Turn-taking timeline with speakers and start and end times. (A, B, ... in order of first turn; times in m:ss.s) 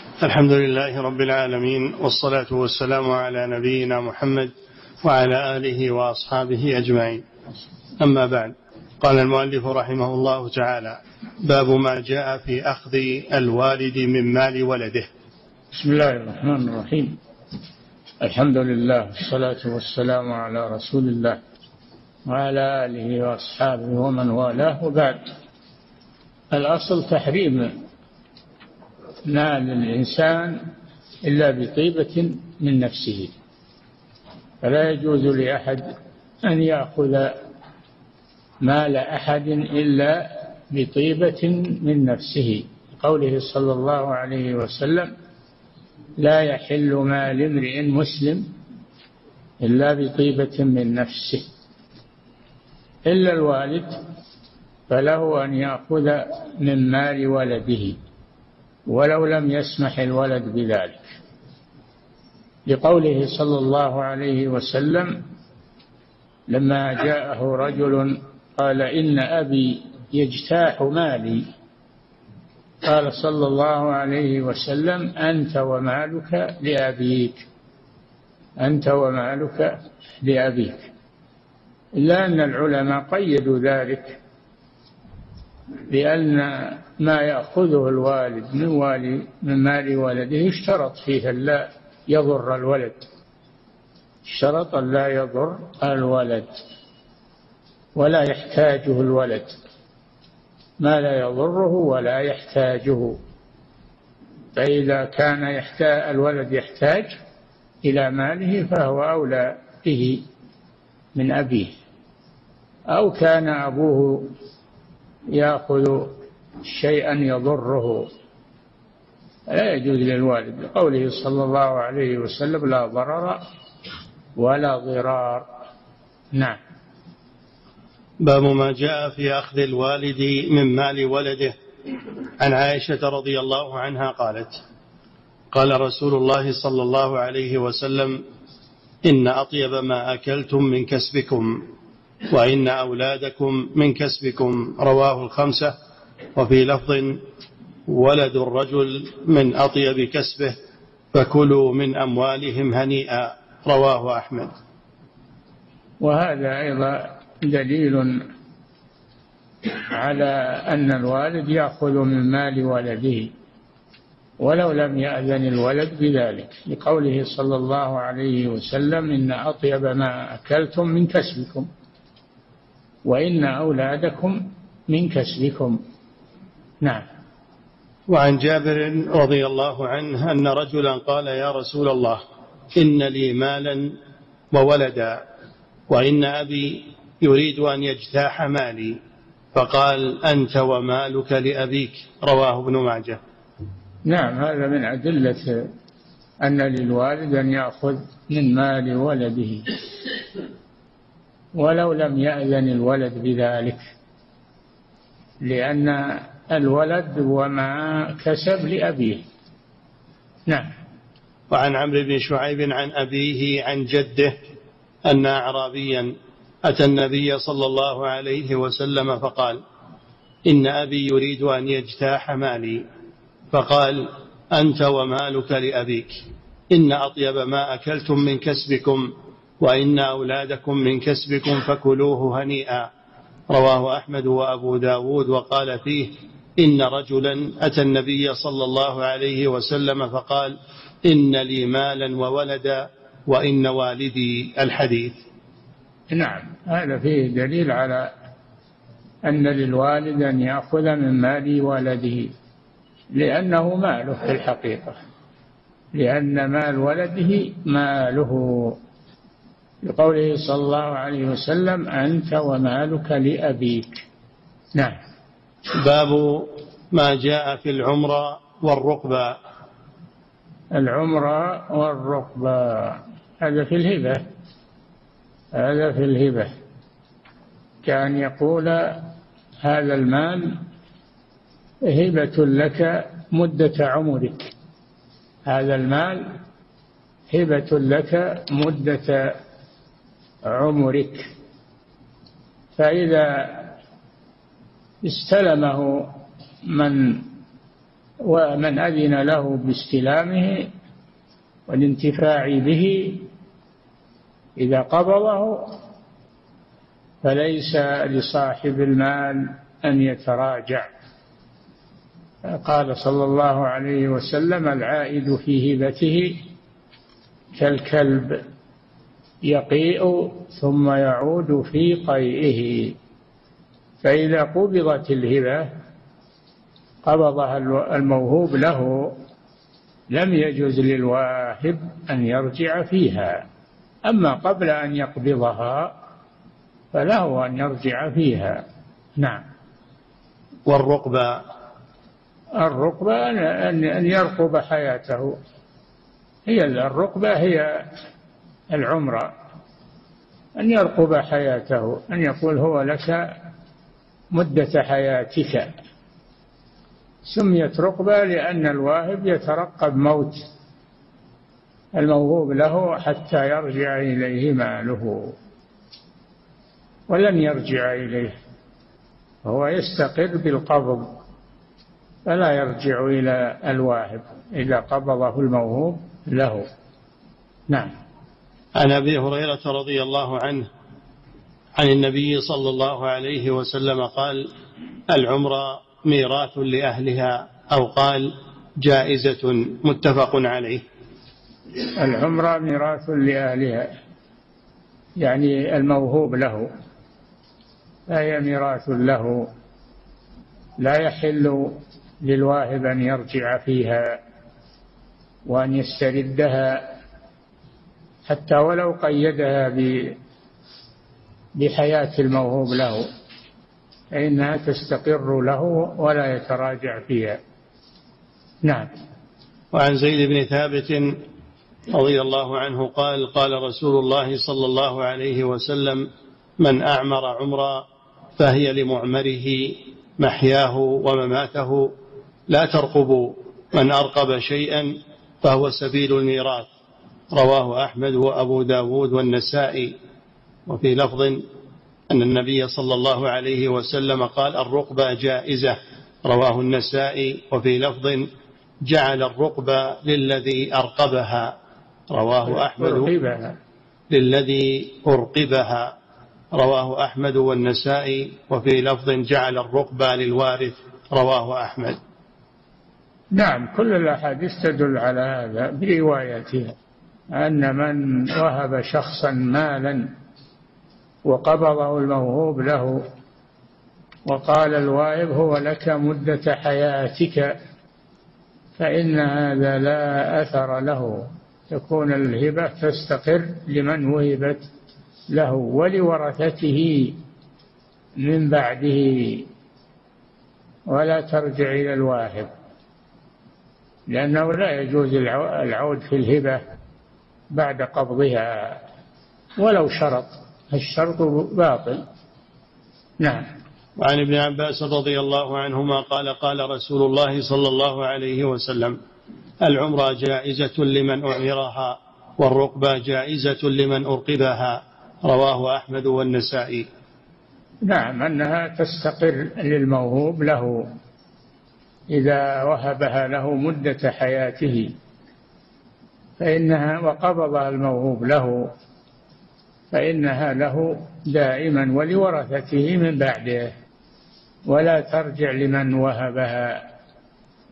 0:00.2-0:04.5 A
0:05.0-0:07.2 A
0:08.0-0:15.1 A
0:15.7-0:17.2 B
0:18.2-0:21.4 B
0:22.3-0:25.3 B
0:26.5-0:27.7 B
0:29.3-0:30.7 B
0:31.2-0:33.3 B
0:34.6-0:37.4 B
0:38.6-0:45.1 B
0:46.2-0:48.5 B
0:49.6-0:51.5 B
0:53.0-0:54.0 B
0:54.9-0:58.0 B
0:58.9-1:01.1 B
1:02.7-1:05.2 B
1:06.5-1:11.5 B
1:12.8-1:17.4 B
1:18.6-1:20.9 B
1:22.0-1:24.2 B
1:25.9-1:33.0 B
1:34.3-1:36.6 B
1:38.0-1:39.6 B
1:40.8-1:43.2 B
1:44.6-1:47.1 B
1:47.8-1:50.2 B
1:51.2-1:51.7 B
1:52.9-1:54.3 B
1:55.3-1:58.1 B
1:59.5-2:03.4 B
2:04.4-2:05.5 B
2:06.3-2:06.6 B
2:08.2-2:11.6 A
2:12.4-2:14.6 A
2:15.5-2:18.2 A
2:19.0-2:21.7 A
2:22.3-2:25.8 A
2:26.4-2:27.2 A
2:27.9-2:30.6 A
2:31.1-2:34.5 A
2:36.0-2:38.2 B
2:39.6-2:43.3 B
2:44.4-2:51.7 B
2:53.0-2:55.8 B
2:58.1-3:02.2 A
3:02.8-3:04.0 A
3:04.5-3:05.2 A
3:05.9-3:09.0 A
3:09.5-3:13.2 A
3:14.1-3:15.7 B
3:16.4-3:19.8 B
3:21.6-3:23.8 B
3:25.4-3:29.2 B
3:31.5-3:34.4 A
3:35.1-3:36.1 A
3:36.6-3:39.6 A
3:40.5-3:42.8 A
3:43.5-3:52.9 A
3:53.5-4:05.2 A
4:06.1-4:08.1 B
4:09.2-4:12.3 B
4:13.1-4:15.0 B
4:15.9-4:18.8 B
4:19.8-4:24.0 B
4:25.8-4:29.4 A
4:30.7-4:34.2 B
4:35.5-4:36.5 B
4:37.8-4:39.1 B
4:39.6-4:40.6 B
4:41.8-4:44.5 B
4:45.5-4:46.4 B
4:47.3-4:49.4 B
4:50.4-4:51.3 B
4:52.8-4:53.8 B
4:55.0-4:56.1 B
4:56.7-4:57.3 B
4:58.2-5:00.7 B
5:01.7-5:03.3 B
5:04.6-5:05.7 B
5:07.2-5:10.9 B
5:12.5-5:16.4 B
5:17.6-5:18.4 B
5:19.4-5:23.0 B
5:24.0-5:25.7 B
5:27.0-5:29.2 B
5:30.1-5:33.4 B
5:34.1-5:35.9 B
5:36.9-5:38.6 B
5:39.2-5:39.4 B
5:40.7-5:41.4 A
5:42.6-5:45.4 B
5:46.5-5:47.8 B
5:48.7-5:49.3 B
5:50.6-5:53.3 B
5:54.3-5:55.7 B
5:57.2-6:00.4 B
6:02.0-6:05.4 B
6:07.1-6:08.4 B
6:09.4-6:11.1 B
6:12.3-6:16.7 B
6:18.8-6:20.7 A
6:21.8-6:24.5 A
6:25.1-6:30.8 A
6:31.9-6:33.9 B
6:35.2-6:36.7 B
6:38.1-6:39.5 B
6:40.8-6:44.2 B
6:45.5-6:46.9 B
6:48.3-6:50.2 B
6:51.6-6:53.1 B
6:54.1-6:57.4 B
6:58.6-6:58.9 B
6:59.7-7:01.2 A
7:01.9-7:06.1 A
7:06.6-7:07.8 A
7:08.4-7:11.9 A
7:12.5-7:16.7 A
7:17.3-7:19.9 A
7:20.7-7:21.4 A
7:22.1-7:28.3 A
7:28.8-7:31.6 A
7:32.1-7:33.1 A
7:32.4-7:33.6 B
7:34.1-7:35.9 A
7:36.5-7:42.0 A
7:43.3-7:46.7 B
7:47.3-7:50.1 B
7:51.3-7:53.0 B
7:54.3-7:57.6 B
7:58.8-8:04.7 B
8:05.3-8:07.2 B
8:08.2-8:09.5 B
8:10.9-8:12.5 B
8:14.1-8:16.6 B
8:17.5-8:18.8 B
8:19.6-8:22.0 B
8:23.2-8:23.4 B
8:24.0-8:29.0 A
8:29.6-8:36.9 A
8:37.8-8:40.9 B
8:42.1-8:44.9 B
8:46.4-8:48.7 B
8:49.9-8:53.7 B
8:54.7-8:56.9 B